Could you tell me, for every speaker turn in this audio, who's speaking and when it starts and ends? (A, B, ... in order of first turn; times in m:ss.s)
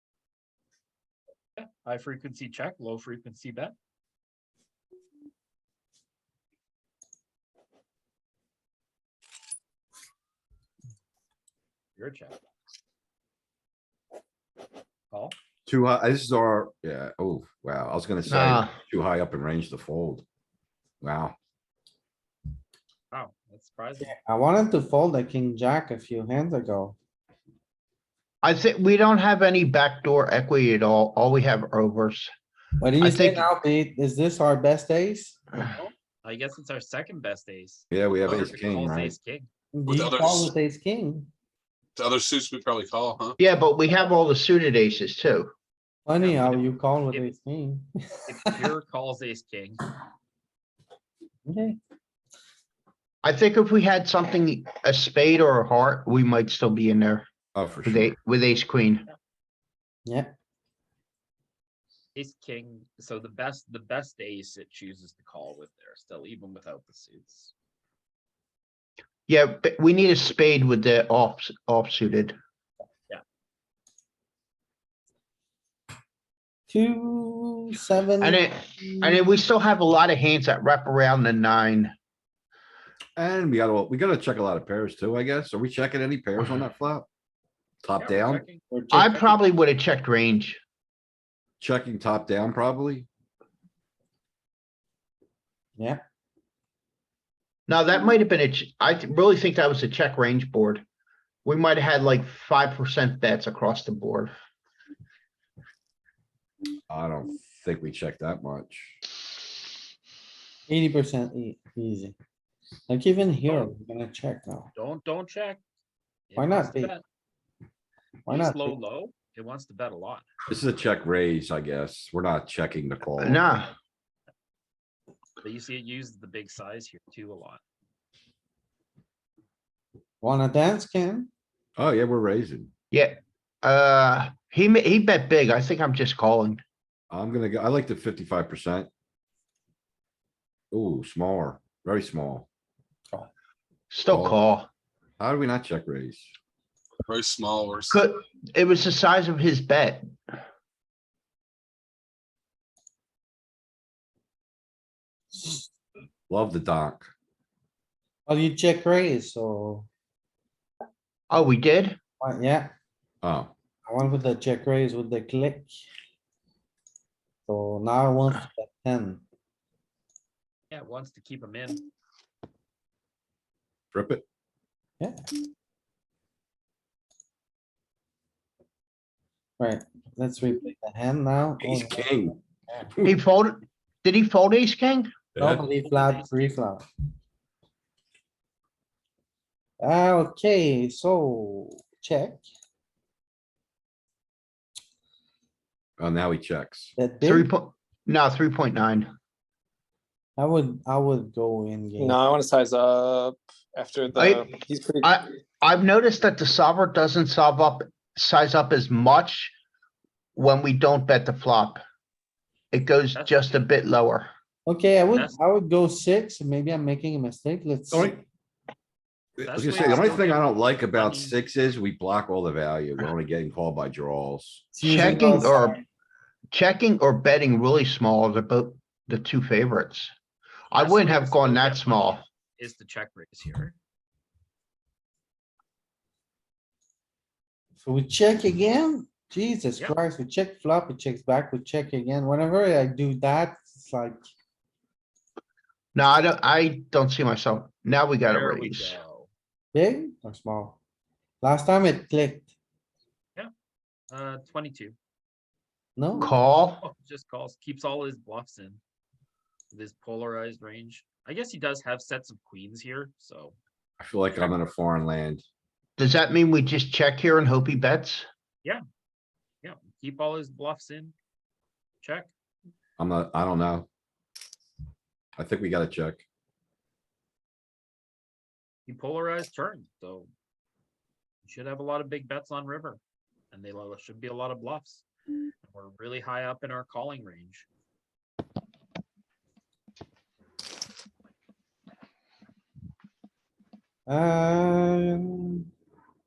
0:01.6-0:03.7 A
0:12.0-0:12.4 A
0:15.7-0:20.2 B
0:18.3-0:18.7 C
0:21.0-0:21.4 B
0:23.1-0:24.2 A
0:24.0-0:27.0 D
0:28.4-0:32.3 C
0:32.8-0:35.9 D
0:33.0-0:33.5 C
0:36.2-0:39.5 A
0:37.9-0:39.2 B
0:39.7-0:41.3 D
0:39.9-0:40.5 E
0:42.0-0:43.4 E
0:43.4-0:45.5 C
0:46.1-0:48.6 D
0:46.2-0:47.4 A
0:48.3-0:49.8 A
0:51.5-0:51.8 D
0:53.2-0:57.3 C
0:57.6-0:58.2 B
0:57.9-0:59.1 C
1:00.1-1:00.3 D
1:02.2-1:07.5 A
1:09.3-1:12.4 C
1:16.7-1:19.4 D
1:18.2-1:21.9 C
1:23.2-1:27.1 B
1:27.8-1:28.4 B
1:28.0-1:28.6 A
1:28.7-1:29.4 D
1:28.9-1:30.6 C
1:31.6-1:33.1 B
1:37.7-1:40.8 C
1:41.4-1:44.3 C
1:46.9-1:49.0 B
1:50.7-1:52.2 D
1:52.9-1:54.7 D
1:53.4-1:53.7 A
1:54.8-1:55.6 A
1:56.3-1:57.0 A
1:56.4-1:56.9 D
1:58.3-1:58.8 D
1:58.3-2:00.3 A
2:00.5-2:03.4 B
2:03.2-2:03.7 C
2:05.4-2:07.6 A
2:10.2-2:11.3 D
2:11.8-2:12.7 B
2:12.9-2:16.6 C
2:17.1-2:18.9 B
2:20.7-2:22.5 B
2:23.9-2:24.7 C
2:24.1-2:24.4 B
2:25.2-2:26.3 B
2:27.0-2:28.0 E
2:27.9-2:30.1 C
2:35.3-2:35.7 D
2:36.3-2:37.1 B
2:38.3-2:39.9 D
2:41.3-2:42.0 C
2:42.2-2:42.7 D
2:43.2-2:43.5 B
2:43.9-2:45.7 D
2:47.5-2:49.2 D
2:50.7-2:51.9 A
2:53.9-2:54.2 B
2:59.6-3:02.9 D
3:01.6-3:02.4 B
3:03.0-3:05.1 C
3:05.4-3:05.6 B
3:05.4-3:06.8 D
3:05.8-3:06.6 A
3:09.8-3:12.4 D
3:16.0-3:17.0 B
3:17.0-3:17.5 D
3:17.2-3:19.1 C
3:20.4-3:22.2 D
3:22.0-3:25.2 F
3:24.2-3:24.5 C
3:25.0-3:29.5 C
3:30.4-3:31.8 C
3:32.7-3:34.3 C
3:33.2-3:33.4 A
3:34.7-3:38.2 D
3:37.9-3:38.2 B
3:39.4-3:45.2 B
3:39.4-3:41.4 A
3:44.8-3:45.8 D
3:44.8-3:45.8 C
3:46.5-3:50.1 C
3:50.7-3:52.2 C
3:50.8-3:53.8 A
3:57.8-4:04.2 D
4:06.0-4:09.0 C
4:08.3-4:09.3 A
4:09.7-4:10.8 D
4:11.4-4:12.5 D
4:14.1-4:15.0 A
4:16.0-4:16.3 D
4:16.2-4:16.8 C
4:16.8-4:18.8 A
4:19.7-4:23.6 A
4:24.0-4:25.4 B
4:26.0-4:28.3 C
4:29.6-4:31.1 A
4:32.0-4:32.3 A
4:33.0-4:33.9 B
4:35.4-4:36.2 B
4:38.9-4:40.3 A
4:41.5-4:43.0 A
4:43.5-4:45.0 A
4:45.6-4:47.7 A
4:54.1-4:55.7 D